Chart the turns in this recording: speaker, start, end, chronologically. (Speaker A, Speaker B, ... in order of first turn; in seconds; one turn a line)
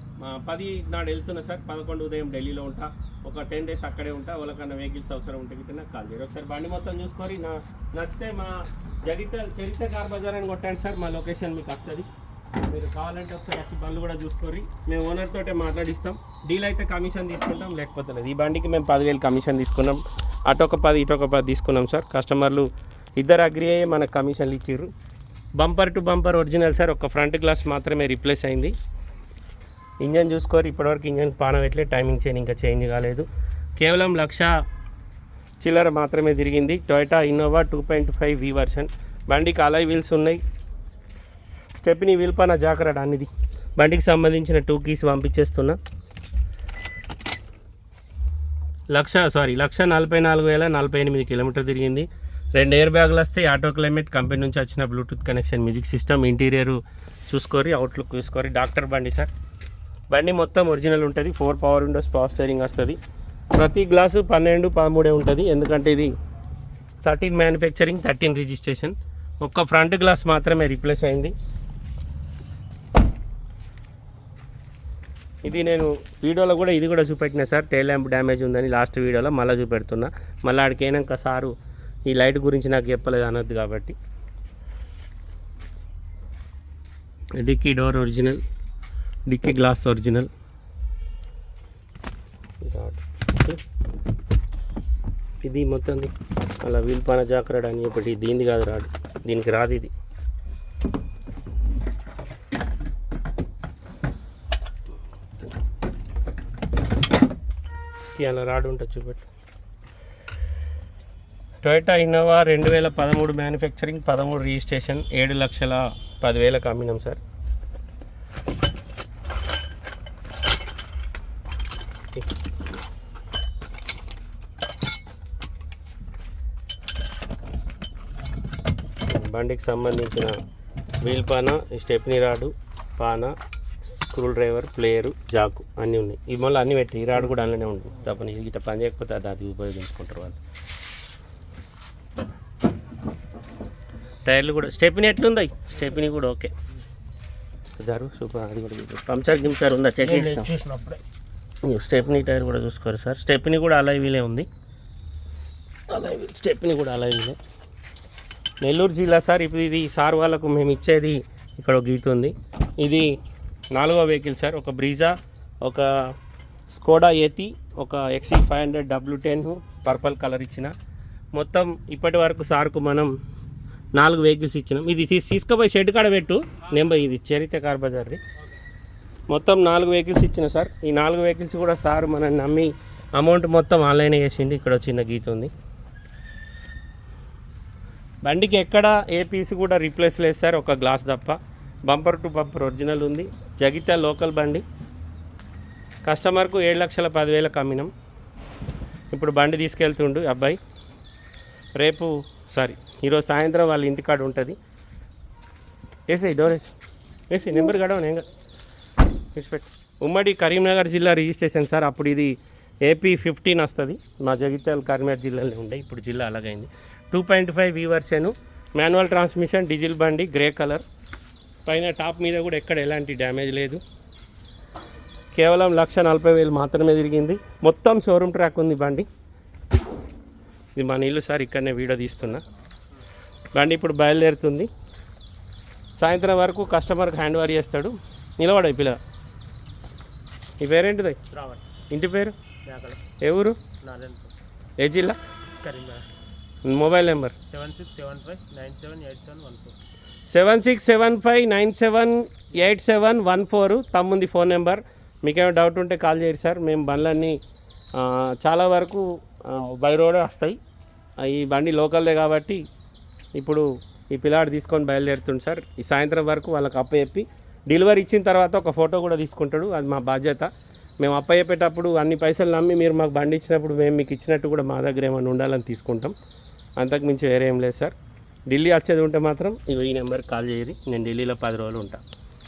Speaker A: 0.2-12.1
Speaker A: 12.6-24.9
Speaker A: 25.6-28.7
Speaker A: 30.0-33.3
Speaker A: 33.8-34.5
Speaker A: 35.6-40.4
Speaker A: 41.8-45.8
Speaker A: 48.9-59.3
Speaker A: 60.1-63.0
Speaker A: 63.5-66.1
Speaker A: 67.0-71.3
Speaker A: 75.4-81.5
Speaker A: 82.1-84.0
Speaker A: 87.4-88.4
Speaker A: 89.3-90.3
Speaker A: 92.6-93.6
Speaker A: 95.4-99.9
Speaker A: 108.2-109.3
Speaker A: 111.6-117.2
Speaker A: 129.1-130.3
Speaker A: 131.0-140.4
Speaker A: 144.3-146.5
Speaker A: 147.8-150.5
Speaker B: 150.0-151.0
Speaker A: 151.7-154.5
Speaker A: 155.9-157.4
Speaker A: 158.6-163.1
Speaker A: 163.7-165.9
Speaker A: 166.7-170.7
Speaker A: 171.3-173.1
Speaker A: 174.0-178.2
Speaker A: 179.3-185.5
Speaker A: 188.2-194.6
Speaker A: 196.1-197.9
Speaker A: 199.1-200.6
Speaker A: 201.8-204.6
Speaker A: 206.1-206.7
Speaker A: 207.3-208.2
Speaker A: 209.3-220.8
Speaker A: 221.7-223.8
Speaker A: 225.3-229.1
Speaker A: 230.8-232.4
Speaker A: 233.6-234.7
Speaker A: 236.0-239.0
Speaker A: 240.6-241.2
Speaker B: 241.3-241.6
Speaker A: 241.9-242.3
Speaker B: 242.7-243.0
Speaker A: 243.2-243.6
Speaker B: 243.8-244.3
Speaker A: 244.8-245.2
Speaker B: 245.6-246.1
Speaker A: 246.7-247.4
Speaker B: 247.5-249.8
Speaker A: 250.3-257.4
Speaker A: 258.0-260.6
Speaker A: 261.2-262.6
Speaker A: 263.4-276.1
Speaker A: 276.8-277.9
Speaker A: 278.5-282.0